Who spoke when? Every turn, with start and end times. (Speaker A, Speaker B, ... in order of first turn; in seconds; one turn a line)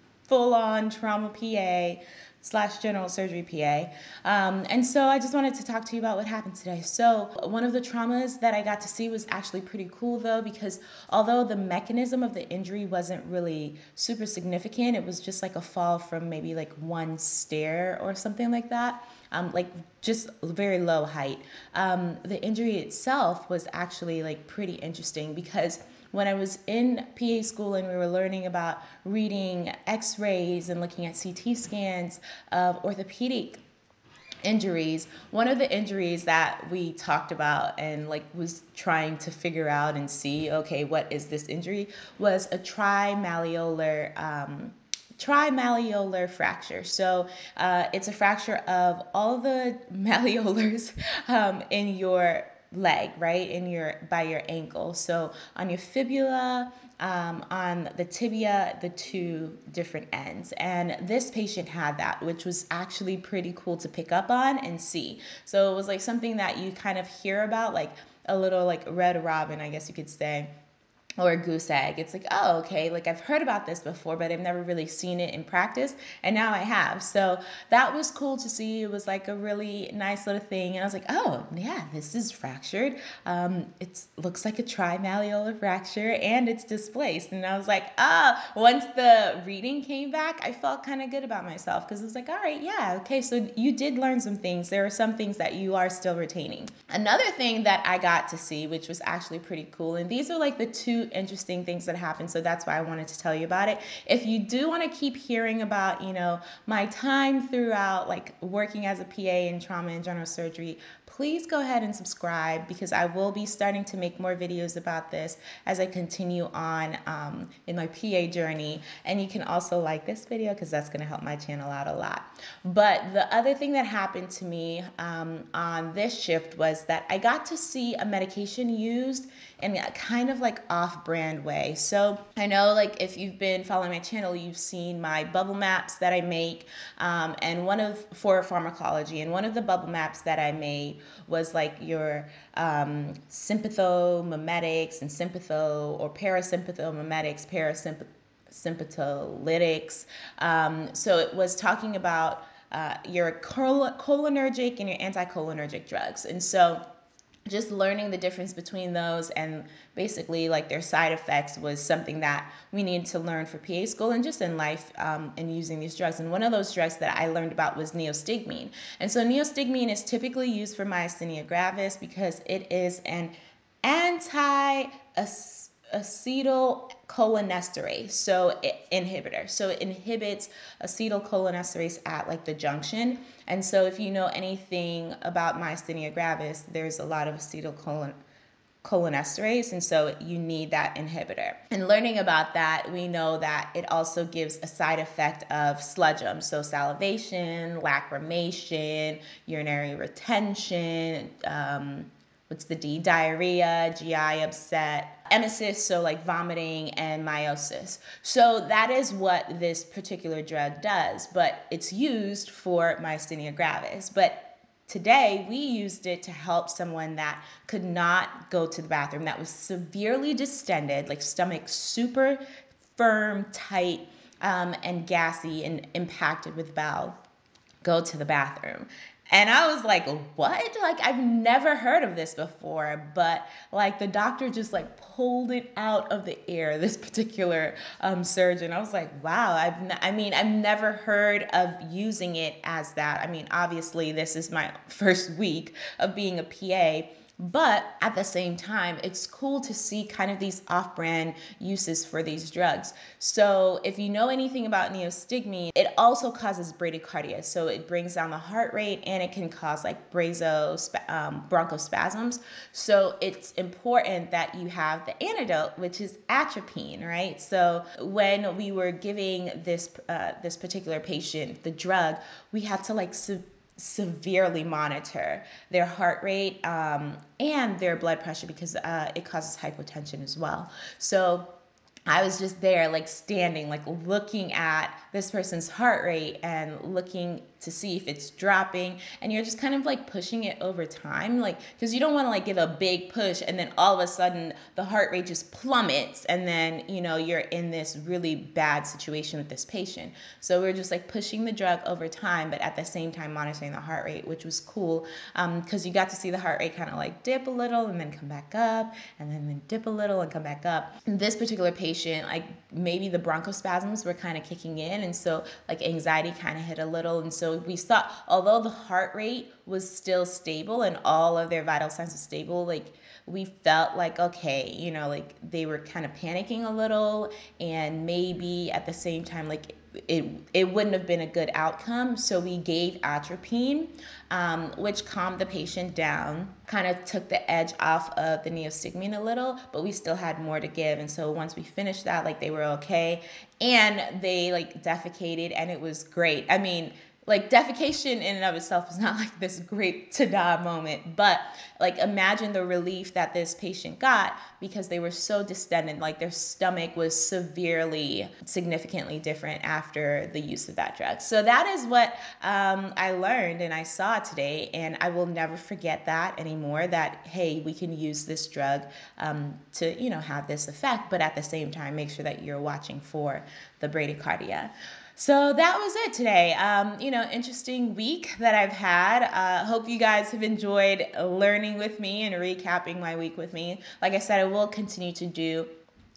Speaker A: 0.3-33.6
Speaker A: 34.4-70.5
Speaker A: 71.2-156.8
Speaker A: 157.5-188.2
Speaker A: 188.8-222.4
Speaker A: 222.9-227.2
Speaker A: 227.8-281.5
Speaker A: 282.1-385.7